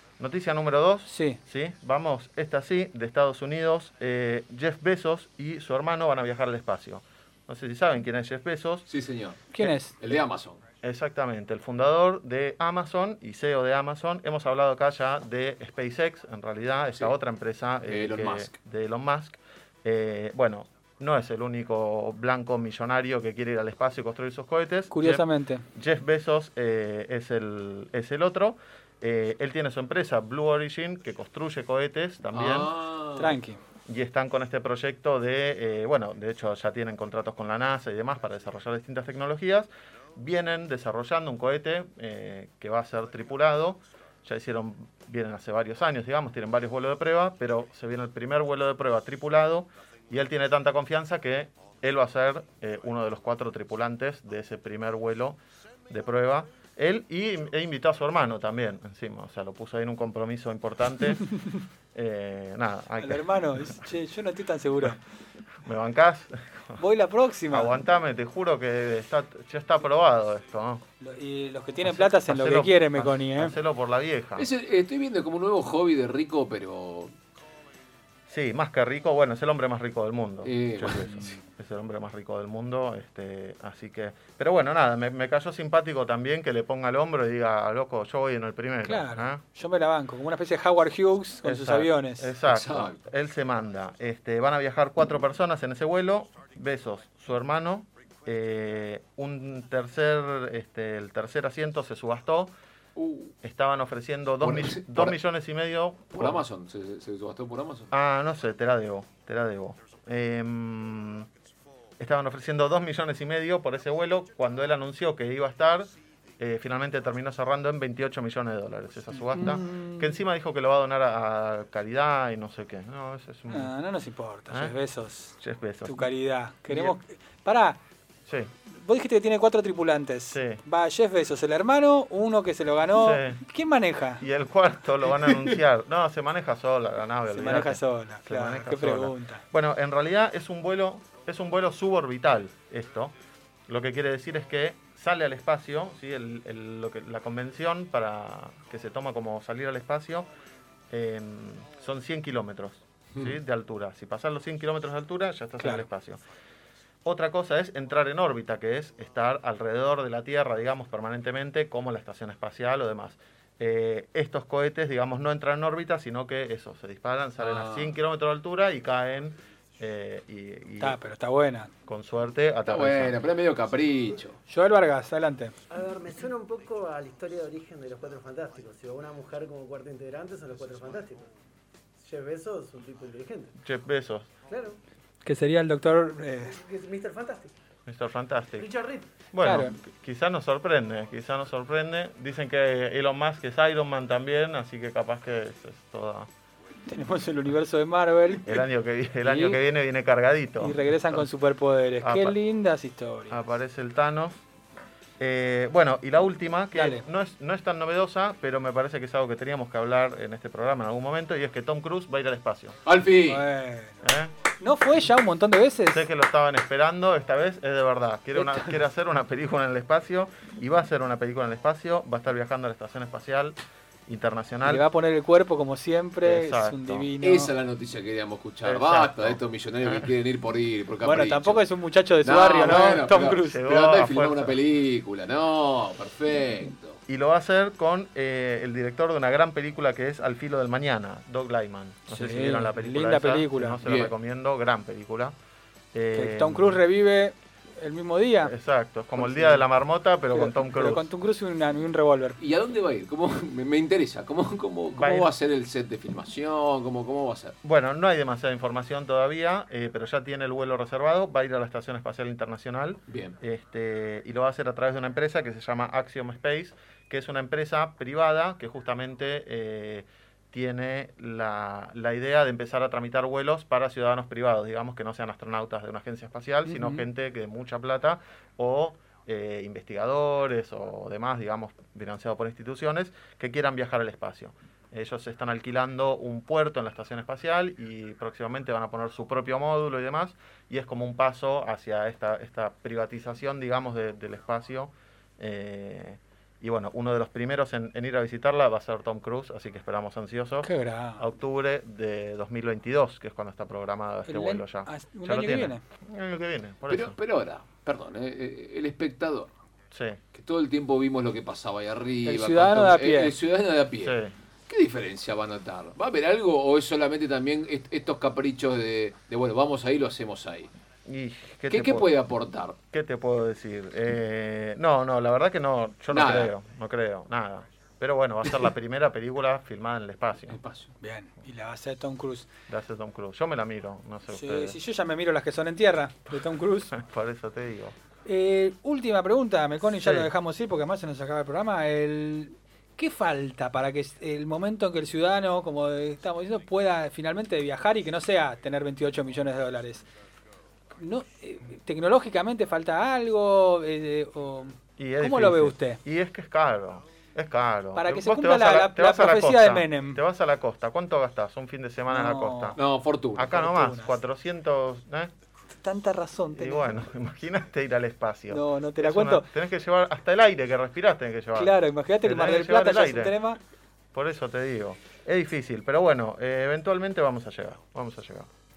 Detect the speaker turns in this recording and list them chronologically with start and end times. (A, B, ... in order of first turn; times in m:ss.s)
0:00.2-0:08.9 A
0:01.0-0:01.4 B
0:08.9-0:10.6 C
0:09.5-0:10.0 B
0:10.8-0:32.7 A
0:17.9-0:18.6 C
0:24.9-0:25.6 B
0:32.3-0:33.4 C
0:33.2-0:33.6 B
0:33.9-0:55.4 A
0:55.9-1:01.3 A
1:01.9-1:03.8 A
1:03.0-1:05.0 B
1:05.6-1:06.8 A
1:06.8-1:07.7 B
1:07.5-1:10.8 A
1:11.0-1:13.6 B
1:11.8-1:14.5 A
1:14.4-1:17.1 C
1:18.3-1:29.4 A
1:20.4-1:21.4 C
1:28.8-1:32.3 B
1:31.4-1:42.5 A
1:32.4-1:33.0 C
1:43.0-1:43.3 C
1:43.4-1:46.4 A
1:44.4-1:45.2 C
1:46.1-1:47.9 C
1:47.9-1:51.3 A
1:52.0-2:03.7 A
1:59.4-2:00.2 B
2:03.5-2:07.8 B
2:05.4-2:06.1 A
2:06.7-2:07.0 A
2:08.3-2:08.5 A
2:08.7-2:14.2 B
2:10.3-2:10.6 A
2:13.0-2:13.4 A
2:14.2-2:23.1 A
2:17.3-2:19.4 B
2:23.7-2:30.3 A
2:30.9-2:36.2 A
2:35.6-2:35.9 B
2:37.0-2:51.0 A
2:47.4-2:48.0 C
2:50.8-2:51.7 B
2:51.9-2:53.2 A
2:52.6-2:54.4 C
2:54.5-2:55.6 B
2:55.7-3:01.3 D
3:02.0-3:03.5 D
3:03.6-3:04.3 A
3:04.5-3:04.8 D
3:05.2-3:06.6 B
3:06.4-3:07.5 D
3:07.9-3:08.7 A
3:08.6-3:09.1 D
3:09.3-3:16.3 A
3:09.4-3:09.8 B
3:16.9-3:18.6 B
3:18.4-3:21.3 A
3:19.2-3:19.6 B
3:20.6-3:23.4 B
3:22.0-3:22.4 A
3:23.3-3:24.4 A
3:25.2-3:32.8 A
3:26.7-3:27.0 B
3:32.9-3:33.5 C
3:33.3-3:34.0 B
3:34.0-3:34.3 A
3:34.6-3:36.0 B
3:35.9-3:44.8 A
3:38.3-3:38.8 B
3:44.6-3:47.5 B
3:46.2-3:47.1 A
3:47.2-3:51.6 C
3:48.6-3:50.1 A
3:51.0-3:53.6 B
3:52.2-3:57.0 C
3:53.3-3:54.6 A
3:57.1-4:05.4 A
4:02.1-4:03.8 B
4:03.8-4:04.2 C
4:05.9-4:06.8 A
4:06.1-4:08.5 B
4:08.4-4:11.1 A
4:09.2-4:09.6 B
4:10.3-4:12.4 B
4:12.4-4:17.5 C
4:15.0-4:15.3 A
4:17.6-5:07.2 A
4:23.1-4:23.4 C
4:36.6-4:37.1 B
5:00.6-5:01.2 B
5:04.3-5:05.8 B
5:06.9-5:09.5 C
5:09.9-5:10.2 A
5:10.3-5:20.7 C
5:12.2-5:13.4 B
5:14.0-5:14.4 A
5:21.1-5:22.1 A
5:21.7-5:22.8 C
5:22.9-5:30.6 A
5:26.1-5:26.5 C
5:30.5-5:30.9 C
5:31.0-5:32.5 B
5:32.7-5:34.8 A
5:34.3-5:36.9 B
5:36.9-5:38.0 A
5:38.2-5:50.1 B
5:39.9-5:40.3 A
5:51.0-5:56.0 B
5:55.0-6:02.8 A
5:57.9-6:00.2 B
6:02.1-6:02.8 B
6:02.8-6:03.5 C
6:03.4-6:05.3 A
6:03.5-6:04.2 B
6:05.7-6:07.0 B
6:06.5-6:13.4 A
6:08.5-6:09.5 B
6:11.6-6:13.6 B
6:14.1-6:18.5 A